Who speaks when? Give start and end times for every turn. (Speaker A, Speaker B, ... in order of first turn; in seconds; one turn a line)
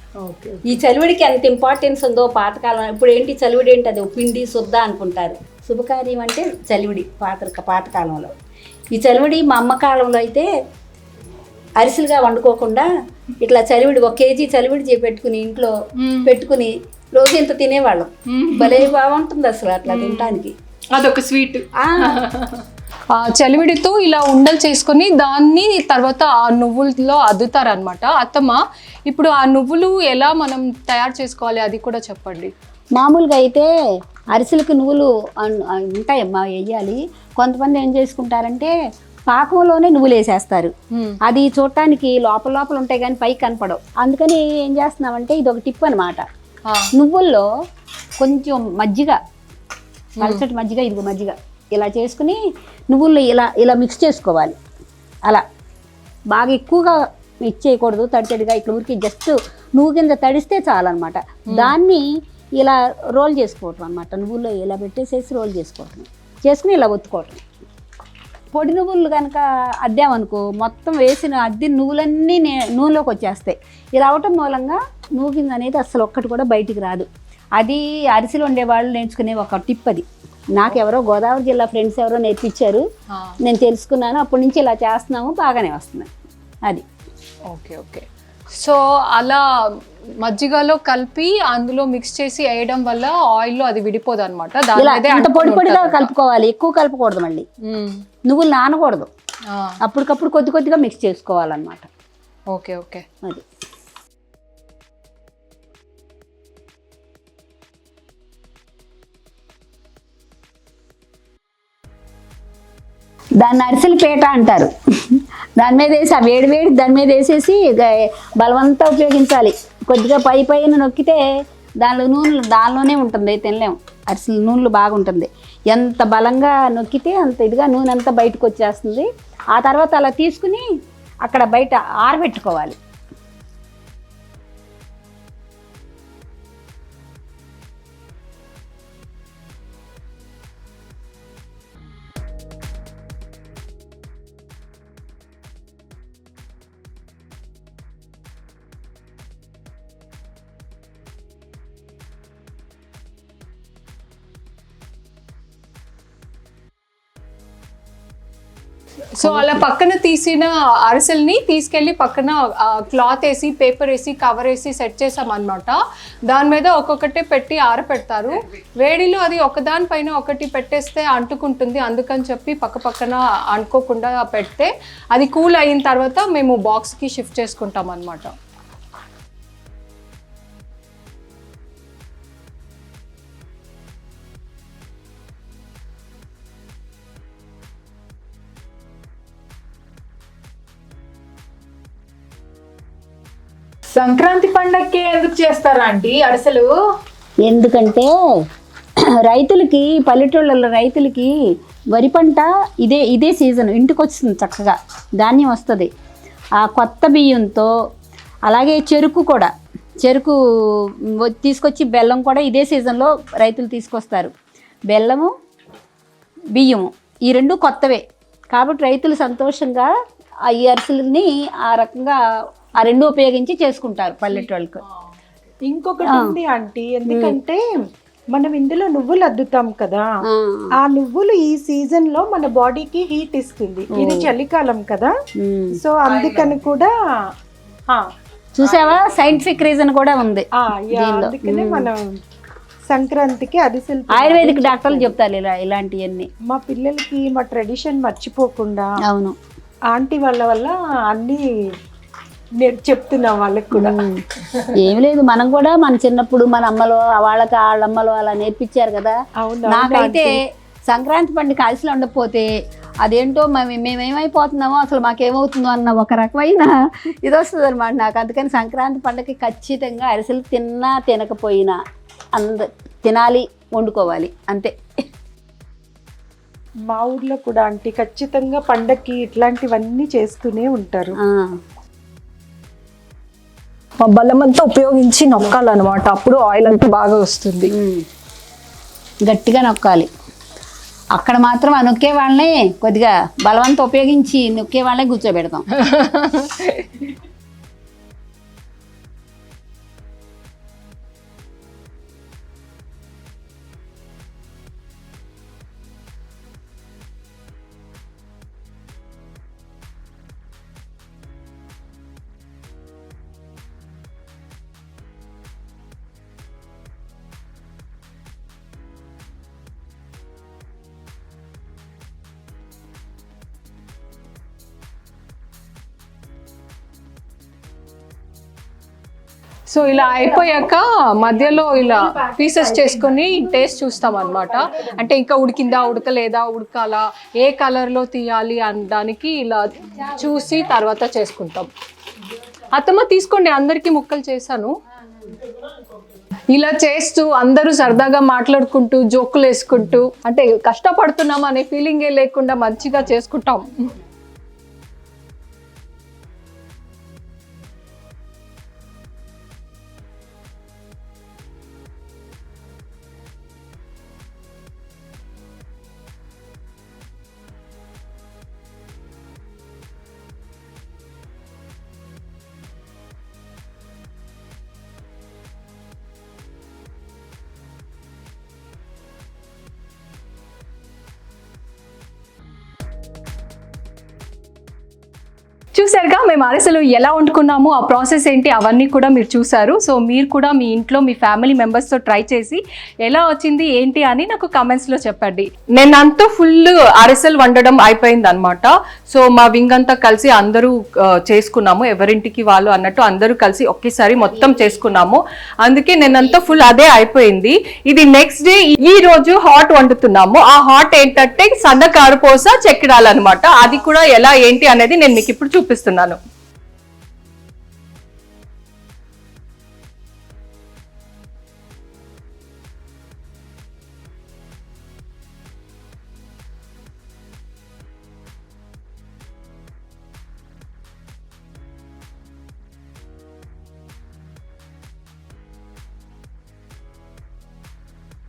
Speaker A: 0.2-0.7
Speaker B: 0.7-8.3
Speaker B: 8.9-10.5
Speaker B: 11.8-12.9
Speaker B: 13.4-20.6
Speaker A: 16.0-16.3
Speaker A: 18.3-18.9
Speaker A: 19.9-20.4
Speaker A: 20.9-32.5
Speaker B: 21.8-22.2
Speaker B: 33.0-33.7
Speaker B: 34.3-38.7
Speaker B: 39.3-40.7
Speaker A: 40.9-41.2
Speaker B: 41.2-46.2
Speaker B: 47.0-47.5
Speaker B: 48.2-49.2
Speaker B: 50.2-54.6
Speaker B: 56.3-62.0
Speaker A: 61.5-61.8
Speaker B: 62.6-67.4
Speaker B: 68.5-77.1
Speaker B: 77.6-82.8
Speaker A: 83.1-83.4
Speaker B: 83.4-86.1
Speaker A: 87.5-96.1
Speaker B: 94.8-97.5
Speaker A: 97.6-98.0
Speaker B: 98.3-99.1
Speaker A: 99.5-99.8
Speaker B: 99.8-101.9
Speaker A: 102.5-103.0
Speaker B: 113.4-121.2
Speaker B: 121.8-130.6
Speaker B: 131.2-132.8
Speaker A: 159.2-178.3
Speaker B: 159.2-159.6
Speaker C: 193.9-196.8
Speaker B: 197.4-198.1
Speaker B: 199.2-201.3
Speaker B: 201.9-205.9
Speaker B: 206.6-207.7
Speaker B: 208.5-209.5
Speaker B: 210.0-214.3
Speaker B: 214.9-215.3
Speaker B: 216.6-218.0
Speaker B: 218.5-219.9
Speaker B: 220.5-222.2
Speaker B: 222.8-224.8
Speaker A: 224.3-225.5
Speaker D: 225.6-227.6
Speaker B: 226.0-226.3
Speaker B: 227.1-227.4
Speaker D: 228.3-230.2
Speaker B: 230.2-230.7
Speaker D: 230.8-235.1
Speaker B: 233.9-234.3
Speaker B: 235.4-235.8
Speaker D: 235.7-236.9
Speaker C: 236.2-236.5
Speaker B: 238.6-241.9
Speaker D: 240.6-242.1
Speaker D: 242.9-245.1
Speaker B: 244.1-246.3
Speaker D: 246.5-248.9
Speaker B: 249.1-249.4
Speaker D: 249.9-251.4
Speaker D: 252.6-254.0
Speaker B: 253.7-262.5
Speaker D: 259.4-260.4
Speaker B: 263.0-271.8
Speaker B: 272.4-274.7
Speaker D: 276.9-281.2
Speaker B: 281.2-281.6
Speaker A: 284.0-287.7
Speaker B: 287.7-288.1
Speaker B: 289.2-290.1
Speaker B: 291.1-295.7
Speaker A: 295.8-297.1
Speaker A: 329.7-341.7
Speaker B: 331.8-332.9
Speaker B: 334.1-335.0
Speaker B: 339.9-340.8
Speaker A: 342.7-344.8
Speaker B: 344.9-345.4
Speaker A: 346.5-353.9
Speaker A: 385.8-416.2
Speaker B: 404.2-404.9
Speaker B: 406.0-406.7